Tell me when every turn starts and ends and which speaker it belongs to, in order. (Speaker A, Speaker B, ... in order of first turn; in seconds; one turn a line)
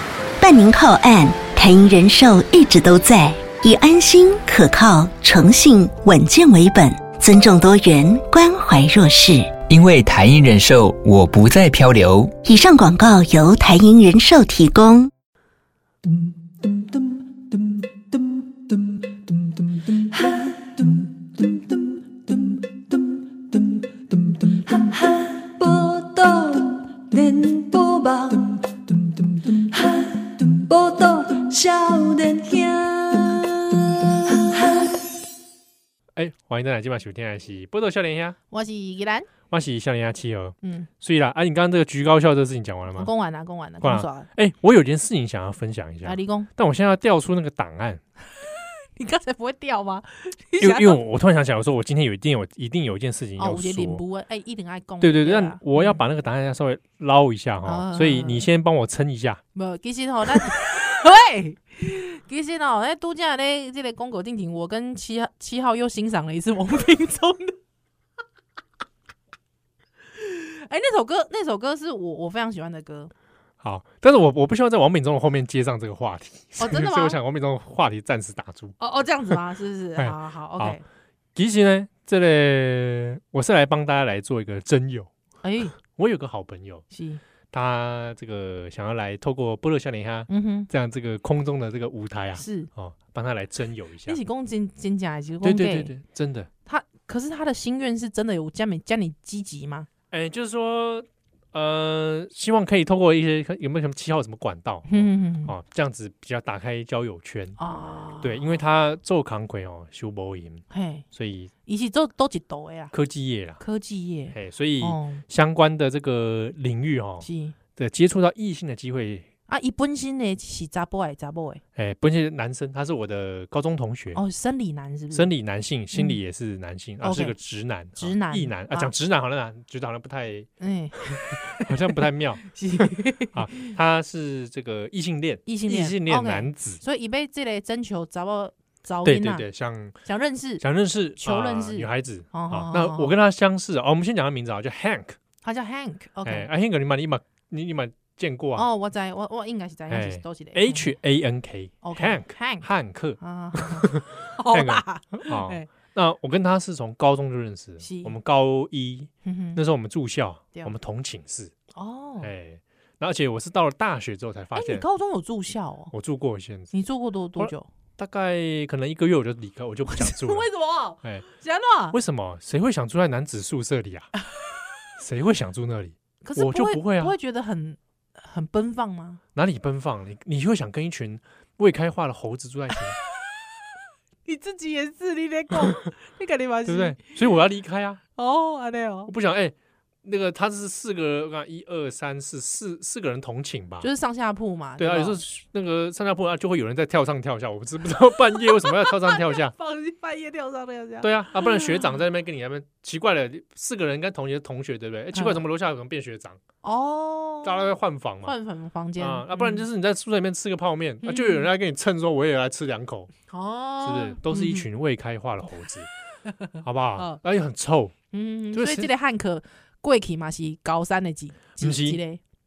Speaker A: 0.4-9.6
Speaker B: 9.7-12.3
Speaker A: 12.4-15.1
Speaker C: 16.1-35.0
Speaker D: 36.2-38.4
Speaker E: 38.5-39.3
Speaker D: 39.5-43.1
Speaker E: 40.6-40.9
Speaker E: 42.9-44.3
Speaker D: 43.8-48.0
Speaker E: 46.0-46.5
Speaker E: 49.0-51.0
Speaker D: 50.6-54.0
Speaker E: 53.4-56.0
Speaker D: 55.0-59.4
Speaker E: 57.7-58.4
Speaker E: 59.5-67.6
Speaker E: 70.1-73.1
Speaker D: 73.6-78.8
Speaker E: 76.6-77.2
Speaker E: 78.8-80.8
Speaker D: 80.0-80.8
Speaker D: 81.3-85.1
Speaker E: 85.4-85.8
Speaker D: 85.8-86.8
Speaker E: 86.9-87.2
Speaker D: 87.5-94.2
Speaker E: 90.3-90.7
Speaker E: 92.4-92.7
Speaker E: 94.0-95.9
Speaker D: 95.4-96.5
Speaker E: 96.7-99.9
Speaker D: 100.1-107.6
Speaker E: 104.9-105.5
Speaker E: 107.6-108.5
Speaker D: 108.2-111.5
Speaker E: 110.7-111.0
Speaker E: 111.7-112.9
Speaker D: 112.9-113.6
Speaker E: 113.6-115.2
Speaker D: 114.3-119.3
Speaker E: 117.2-117.5
Speaker E: 119.5-121.6
Speaker D: 121.8-124.2
Speaker E: 124.1-125.3
Speaker D: 125.1-130.5
Speaker E: 127.0-127.4
Speaker E: 128.0-128.9
Speaker E: 130.6-133.7
Speaker D: 131.1-132.4
Speaker D: 133.3-136.8
Speaker E: 135.5-139.5
Speaker D: 139.0-140.0
Speaker E: 140.0-140.6
Speaker D: 140.6-145.2
Speaker E: 141.2-143.1
Speaker E: 145.4-146.5
Speaker D: 146.2-148.7
Speaker E: 148.6-150.9
Speaker D: 149.9-161.5
Speaker E: 151.8-152.7
Speaker E: 153.2-155.7
Speaker E: 157.8-158.2
Speaker E: 159.2-159.6
Speaker E: 161.8-162.3
Speaker D: 162.2-164.8
Speaker E: 164.5-165.9
Speaker D: 165.9-166.7
Speaker E: 166.7-167.7
Speaker D: 167.3-170.5
Speaker E: 169.9-172.0
Speaker D: 171.9-174.1
Speaker D: 175.0-177.2
Speaker E: 176.2-179.2
Speaker D: 179.3-183.0
Speaker E: 184.2-187.1
Speaker D: 186.7-188.0
Speaker E: 188.2-189.1
Speaker D: 189.1-193.9
Speaker E: 193.8-195.2
Speaker D: 194.8-199.5
Speaker E: 198.4-202.0
Speaker D: 201.0-206.4
Speaker E: 205.1-205.4
Speaker E: 206.6-207.7
Speaker D: 207.4-208.3
Speaker E: 208.2-209.7
Speaker D: 209.0-213.1
Speaker E: 211.0-211.5
Speaker E: 213.3-214.7
Speaker D: 213.8-215.9
Speaker E: 216.5-217.2
Speaker D: 216.6-217.9
Speaker E: 218.1-222.2
Speaker D: 218.5-218.9
Speaker D: 221.6-222.0